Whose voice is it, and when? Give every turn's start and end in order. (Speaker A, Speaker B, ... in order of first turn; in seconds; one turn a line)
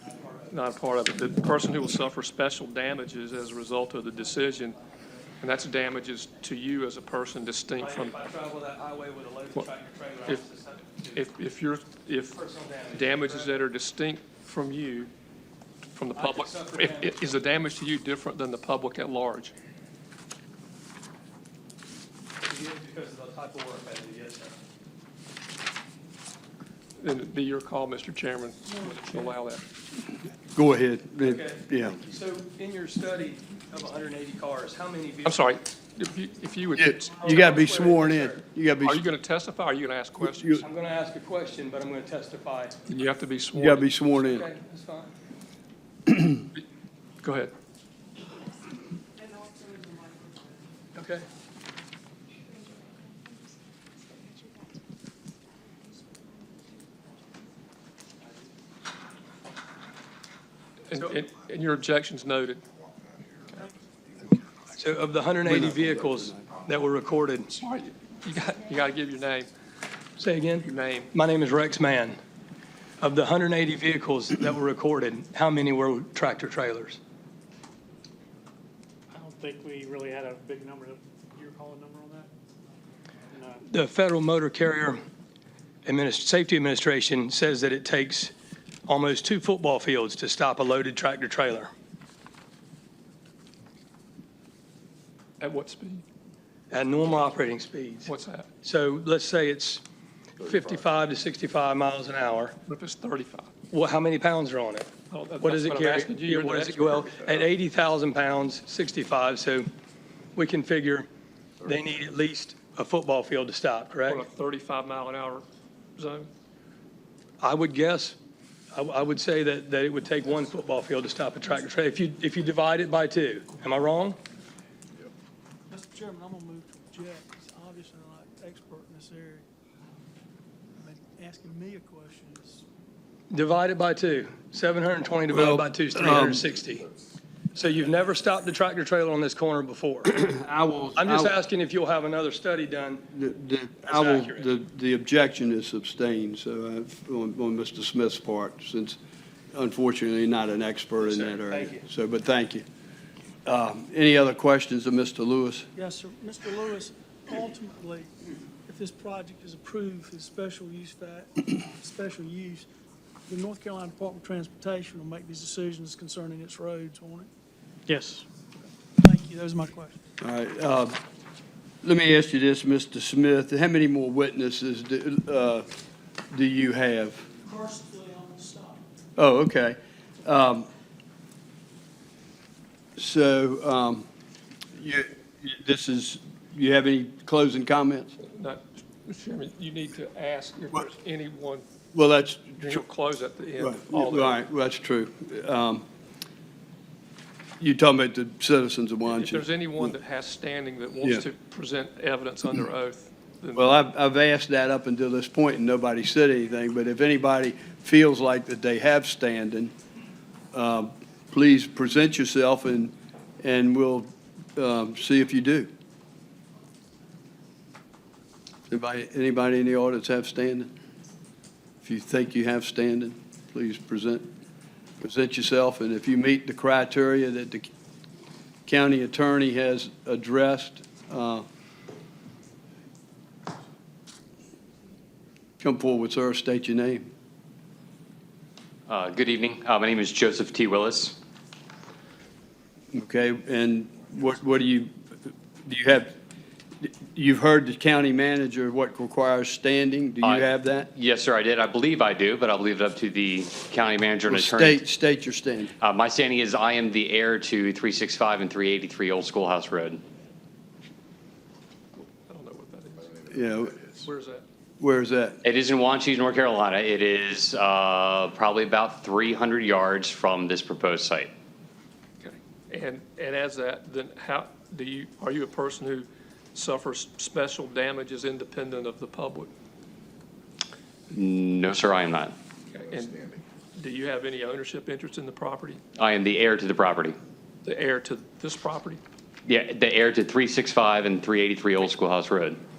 Speaker A: 0.2-0.6
Speaker B: 0.5-4.8
Speaker B: 5.4-8.2
Speaker A: 7.8-11.3
Speaker B: 11.1-15.1
Speaker A: 12.3-13.6
Speaker B: 15.9-19.5
Speaker A: 16.1-17.3
Speaker A: 22.4-24.6
Speaker B: 27.0-29.7
Speaker C: 28.8-29.2
Speaker D: 30.5-32.0
Speaker A: 31.2-35.5
Speaker B: 35.2-37.4
Speaker D: 36.7-39.0
Speaker A: 37.2-38.4
Speaker B: 38.8-40.7
Speaker D: 40.2-40.6
Speaker A: 40.6-42.8
Speaker B: 42.9-43.9
Speaker D: 43.6-44.5
Speaker A: 44.2-45.1
Speaker B: 47.2-47.5
Speaker A: 50.9-51.2
Speaker B: 60.9-62.6
Speaker A: 64.7-67.5
Speaker D: 65.4-66.5
Speaker B: 67.5-69.5
Speaker A: 70.2-72.2
Speaker B: 70.6-71.1
Speaker A: 73.0-77.0
Speaker E: 79.1-82.3
Speaker E: 83.3-83.6
Speaker A: 83.7-85.0
Speaker A: 85.8-88.3
Speaker A: 88.9-91.7
Speaker B: 95.4-96.0
Speaker A: 96.7-98.1
Speaker B: 98.0-98.5
Speaker A: 98.6-99.8
Speaker A: 100.4-102.5
Speaker B: 102.7-103.5
Speaker A: 103.7-109.7
Speaker B: 105.1-107.5
Speaker A: 110.3-111.1
Speaker A: 111.6-114.2
Speaker B: 114.1-115.4
Speaker B: 116.0-116.3
Speaker A: 117.4-118.2
Speaker A: 118.7-124.2
Speaker C: 125.7-129.4
Speaker C: 130.8-132.6
Speaker A: 133.3-136.9
Speaker D: 135.3-136.5
Speaker A: 137.5-140.2
Speaker D: 140.1-141.3
Speaker A: 140.9-143.0
Speaker D: 143.1-149.0
Speaker A: 143.8-144.5
Speaker D: 149.5-152.6
Speaker A: 151.0-151.8
Speaker D: 153.4-155.7
Speaker C: 155.8-158.1
Speaker C: 158.7-162.7
Speaker C: 163.3-167.3
Speaker E: 167.9-168.2
Speaker C: 169.0-170.0
Speaker D: 170.2-171.0
Speaker D: 171.8-175.7
Speaker D: 176.3-177.2
Speaker C: 177.4-178.8
Speaker D: 179.2-180.7
Speaker D: 183.0-184.0
Speaker D: 184.7-188.1
Speaker B: 188.2-191.6
Speaker D: 191.9-192.8
Speaker B: 192.6-194.4
Speaker D: 193.6-195.8
Speaker D: 197.6-199.9
Speaker B: 199.1-203.8
Speaker D: 203.6-209.7
Speaker D: 210.5-215.7
Speaker D: 218.7-220.7
Speaker D: 221.8-224.2
Speaker D: 225.0-227.7
Speaker D: 228.7-231.4
Speaker D: 235.6-237.1
Speaker F: 238.9-241.2
Speaker D: 242.9-244.9
Speaker D: 245.7-246.1
Speaker D: 246.8-250.9
Speaker F: 250.2-254.8
Speaker D: 254.3-255.7
Speaker F: 255.8-260.0
Speaker B: 261.9-263.1
Speaker D: 263.3-263.8
Speaker B: 264.0-264.4
Speaker D: 264.8-265.4
Speaker F: 265.4-271.3
Speaker B: 272.2-279.5
Speaker F: 281.1-282.3
Speaker B: 282.7-285.8
Speaker F: 285.9-287.2
Speaker B: 287.6-289.0
Speaker F: 289.4-292.6